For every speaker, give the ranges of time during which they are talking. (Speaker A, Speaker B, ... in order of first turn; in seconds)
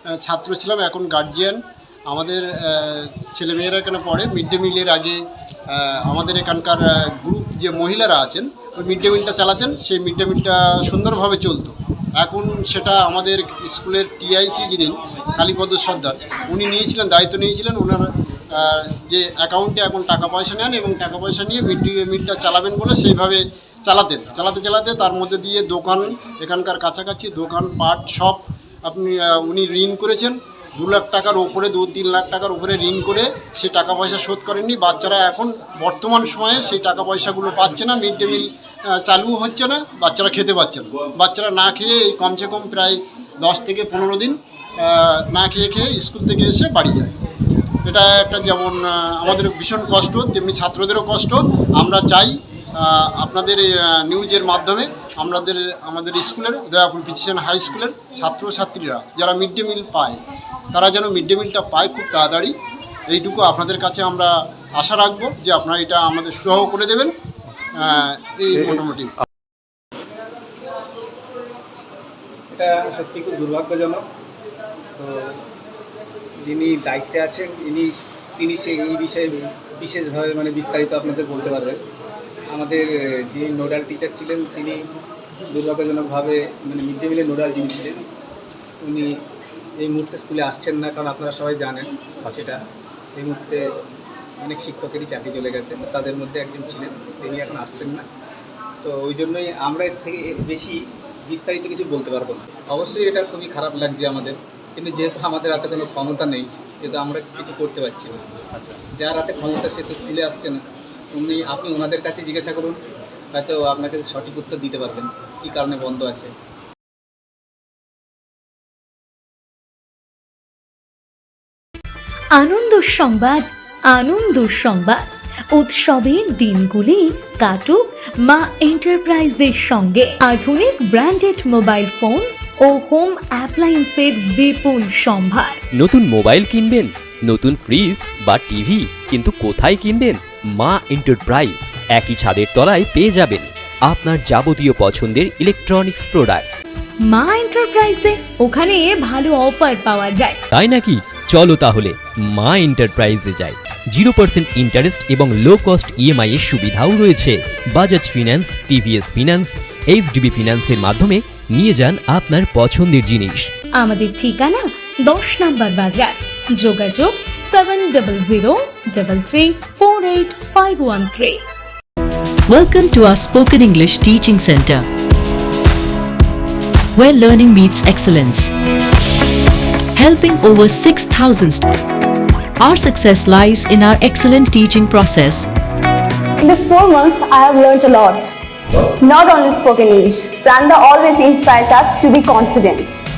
Speaker A: 0.2-47.1, 47.8-60.2, 60.7-62.5, 63.1-67.1, 67.7-69.1
Speaker B: 72.5-74.0, 75.0-75.4, 76.4-81.8, 82.5-84.8, 85.5-88.0, 88.8-89.1, 89.8-92.6, 93.1-93.7, 94.4-98.0, 98.8-110.6, 111.1-112.8, 113.3-116.3
Speaker C: 122.4-125.0, 125.5-135.6, 147.1-150.4, 163.8-171.4
Speaker D: 135.7-146.4, 150.5-163.5
Speaker E: 172.5-174.9, 176.9-178.5, 179.9-181.7, 182.6-185.5
Speaker F: 186.4-188.2, 189.0-192.8